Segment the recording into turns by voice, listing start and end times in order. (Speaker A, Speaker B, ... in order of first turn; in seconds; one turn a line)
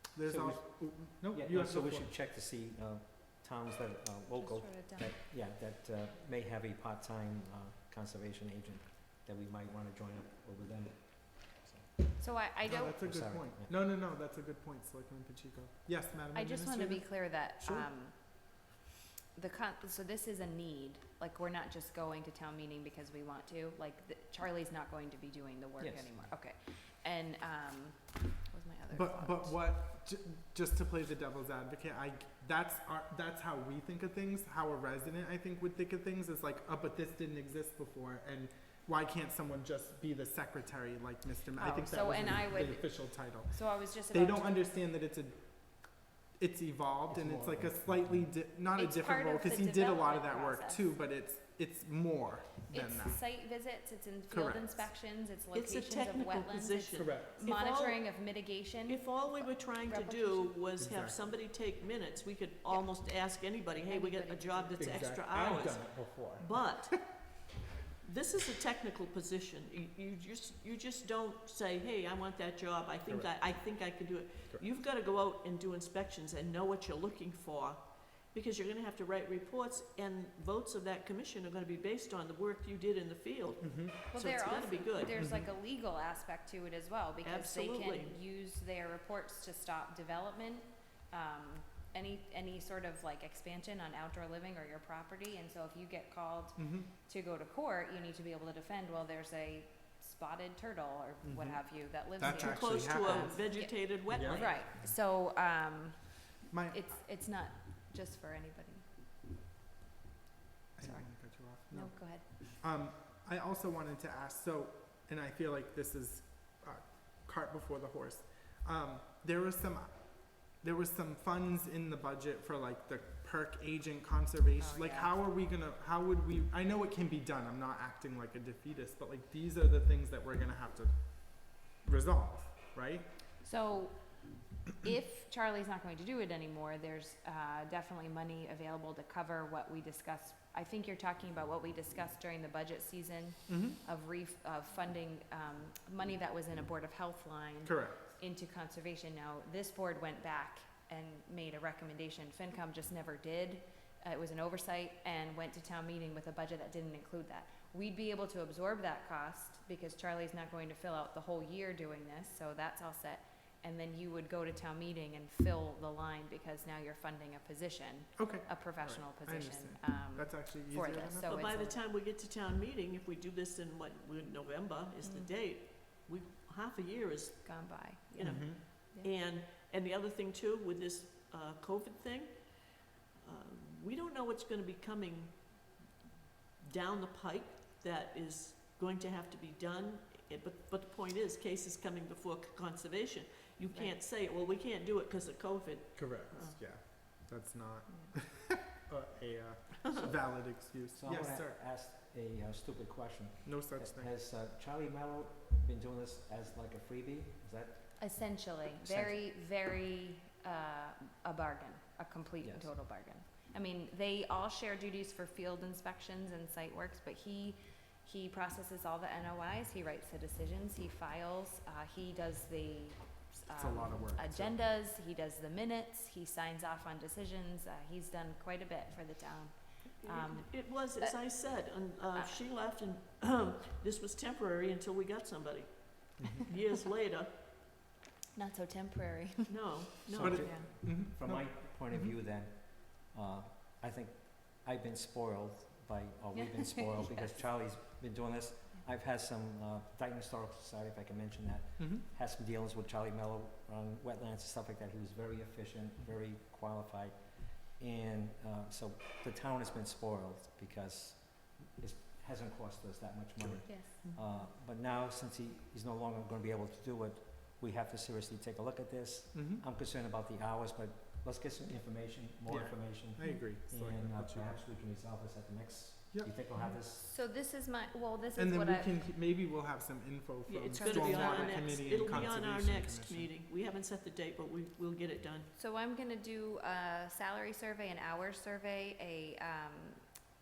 Speaker A: 0.1-2.1
Speaker B: 0.2-12.2
Speaker C: 4.3-5.1
Speaker C: 12.2-13.0
Speaker A: 12.6-17.9
Speaker B: 13.0-13.7
Speaker C: 16.3-18.4
Speaker C: 19.3-29.6
Speaker B: 25.8-26.2
Speaker A: 28.9-53.2
Speaker C: 41.5-44.6
Speaker B: 47.1-48.3
Speaker C: 48.7-50.9
Speaker C: 52.7-60.6
Speaker A: 54.3-54.9
Speaker D: 55.5-58.2
Speaker A: 56.9-57.4
Speaker D: 58.9-67.2
Speaker A: 60.8-61.3
Speaker C: 62.7-65.0
Speaker A: 64.8-67.0
Speaker D: 68.0-85.1
Speaker A: 73.0-73.3
Speaker A: 83.6-84.0
Speaker C: 84.1-108.8
Speaker A: 85.1-85.5
Speaker D: 87.2-88.1
Speaker A: 96.6-96.9
Speaker A: 101.2-103.5
Speaker D: 102.2-104.6
Speaker A: 104.1-104.6
Speaker A: 106.5-106.9
Speaker A: 110.8-133.1
Speaker C: 110.8-112.6
Speaker C: 124.6-125.2
Speaker C: 133.4-171.8
Speaker A: 143.5-143.8
Speaker A: 147.6-148.2
Speaker A: 168.2-171.4
Speaker D: 171.2-185.8
Speaker C: 175.0-175.3
Speaker C: 177.4-179.1
Speaker A: 178.2-178.6
Speaker D: 186.6-196.6
Speaker A: 195.9-201.6
Speaker C: 197.9-198.1
Speaker B: 200.9-209.2
Speaker A: 203.4-204.1
Speaker C: 208.0-231.5
Speaker B: 212.4-212.7
Speaker A: 223.5-224.6
Speaker D: 230.0-237.3
Speaker C: 232.1-232.4
Speaker A: 236.2-236.5
Speaker C: 238.3-240.7
Speaker D: 239.5-240.5
Speaker B: 240.1-277.1
Speaker A: 240.2-242.1
Speaker C: 246.6-247.3
Speaker A: 251.8-252.0
Speaker A: 263.4-264.2
Speaker C: 263.6-264.5
Speaker A: 269.3-269.6
Speaker A: 272.5-274.6
Speaker C: 276.8-278.9
Speaker A: 278.3-283.3
Speaker D: 280.4-285.5
Speaker C: 280.7-282.0
Speaker C: 285.6-290.1